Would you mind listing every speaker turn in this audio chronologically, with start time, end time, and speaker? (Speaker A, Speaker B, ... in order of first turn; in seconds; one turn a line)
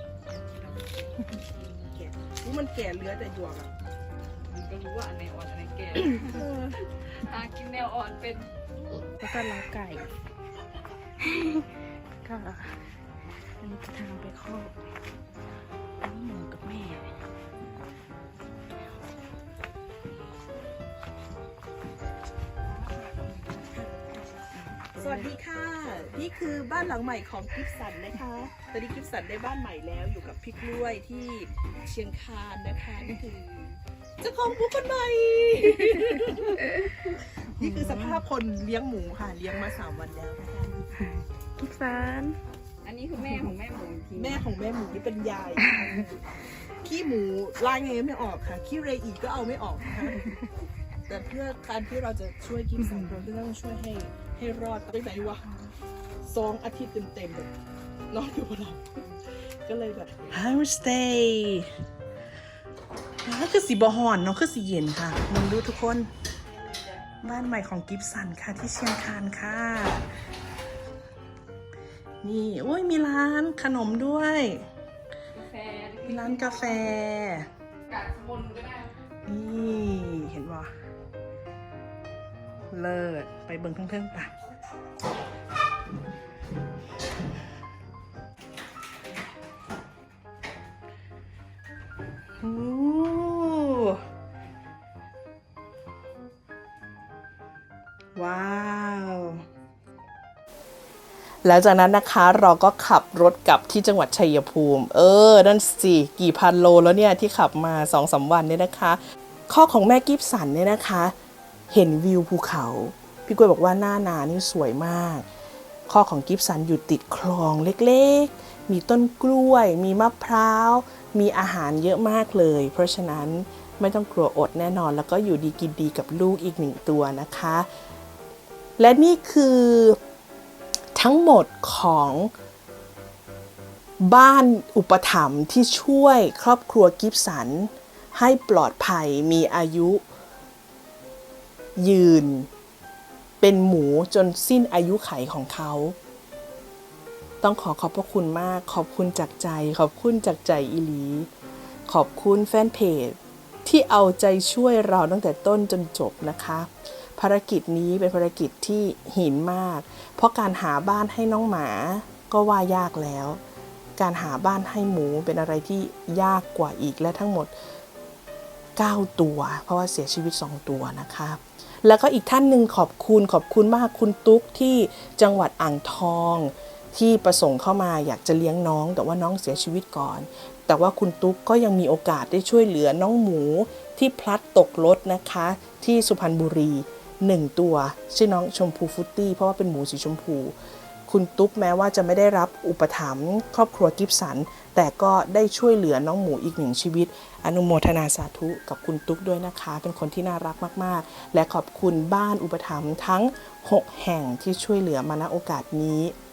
Speaker A: 0.3-3.7
Speaker B: 4.5-8.5
Speaker A: 6.1-6.8
Speaker A: 9.0-10.1
Speaker C: 11.2-11.6
Speaker C: 12.2-12.7
Speaker C: 13.6-14.7
Speaker C: 16.2-17.0
Speaker B: 22.9-24.2
Speaker B: 24.7-25.2
Speaker A: 24.9-33.4
Speaker B: 33.2-33.8
Speaker A: 34.2-40.9
Speaker C: 41.6-42.4
Speaker B: 42.8-44.4
Speaker A: 44.1-50.4
Speaker A: 51.1-55.5
Speaker A: 56.2-57.5
Speaker A: 58.1-61.7
Speaker A: 63.2-66.1
Speaker A: 67.2-70.2
Speaker A: 72.2-74.7
Speaker B: 75.4-76.6
Speaker A: 76.0-77.5
Speaker B: 77.9-78.9
Speaker A: 79.3-80.7
Speaker A: 82.7-84.3
Speaker A: 92.4-94.0
Speaker A: 98.2-99.4
Speaker A: 101.4-111.1
Speaker A: 111.7-115.3
Speaker A: 115.9-127.7
Speaker A: 128.8-130.0
Speaker A: 130.9-132.3
Speaker A: 134.0-140.0
Speaker A: 141.8-142.5
Speaker A: 143.4-146.0
Speaker A: 147.4-151.3
Speaker A: 151.9-163.4
Speaker A: 164.0-167.5
Speaker A: 168.8-190.6
Speaker A: 191.1-206.2